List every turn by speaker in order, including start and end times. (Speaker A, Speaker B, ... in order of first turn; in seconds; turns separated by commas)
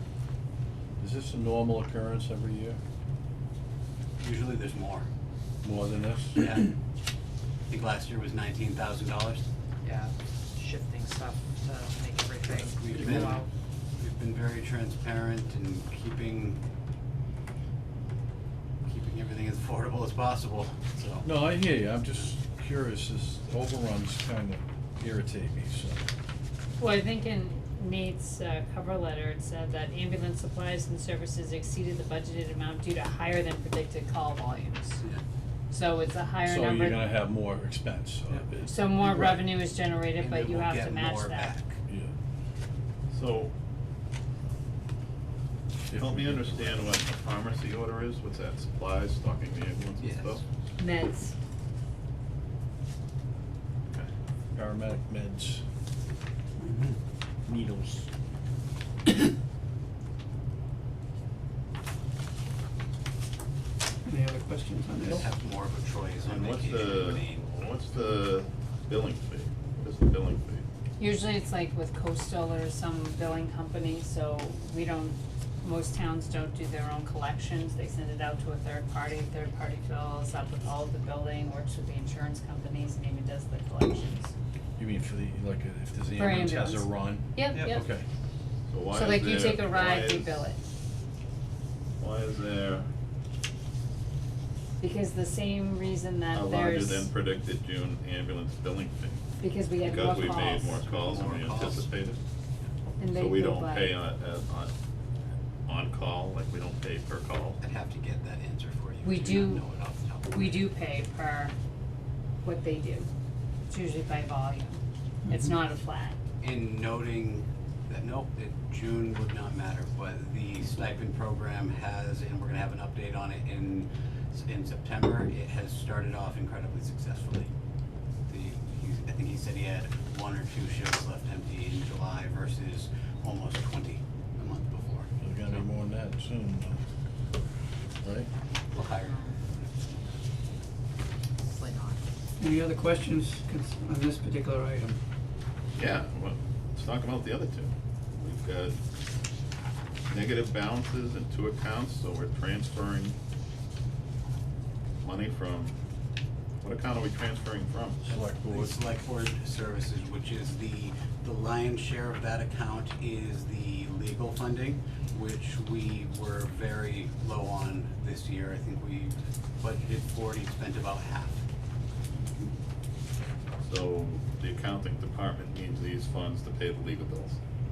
Speaker A: 1.0-2.8, Speaker B: 4.2-5.1, Speaker A: 5.6-6.5, Speaker B: 6.4-6.7, Speaker B: 7.7-9.4, Speaker C: 9.8-13.5, Speaker B: 12.4-13.4, Speaker B: 14.0-16.6, Speaker B: 18.9-21.3, Speaker A: 21.2-26.0, Speaker D: 26.8-35.0, Speaker D: 35.7-37.0, Speaker A: 36.4-39.5, Speaker D: 38.7-41.5, Speaker B: 40.2-41.8, Speaker A: 41.9-42.1, Speaker E: 43.1-43.5, Speaker A: 45.9-47.0, Speaker E: 45.9-50.4, Speaker B: 50.0-50.4, Speaker D: 50.8-51.3, Speaker A: 54.5-55.6, Speaker A: 57.5-58.1, Speaker F: 64.0-65.2, Speaker B: 65.0-67.5, Speaker E: 66.2-70.6, Speaker D: 71.0-84.3, Speaker A: 84.8-88.0, Speaker D: 86.1-87.8, Speaker E: 88.7-90.4, Speaker D: 88.9-90.6, Speaker E: 92.0-92.9, Speaker D: 94.8-97.1, Speaker E: 96.3-99.2, Speaker D: 99.4-100.8, Speaker E: 99.8-102.2, Speaker B: 100.8-101.9, Speaker D: 103.0-103.9, Speaker E: 103.0-104.7, Speaker E: 105.7-107.6, Speaker B: 107.6-110.7, Speaker D: 109.0-109.6, Speaker D: 110.3-111.5, Speaker D: 112.4-113.1, Speaker D: 113.7-116.2, Speaker B: 116.4-127.5, Speaker B: 128.3-135.1, Speaker A: 135.2-136.8, Speaker A: 138.0-138.3, Speaker B: 138.7-139.2, Speaker C: 138.8-139.4, Speaker C: 141.4-142.0, Speaker F: 142.4-145.0, Speaker E: 145.8-148.8, Speaker E: 150.1-153.2, Speaker E: 155.0-155.8, Speaker E: 156.6-158.0, Speaker B: 158.0-171.4, Speaker A: 158.1-158.8, Speaker E: 173.6-177.4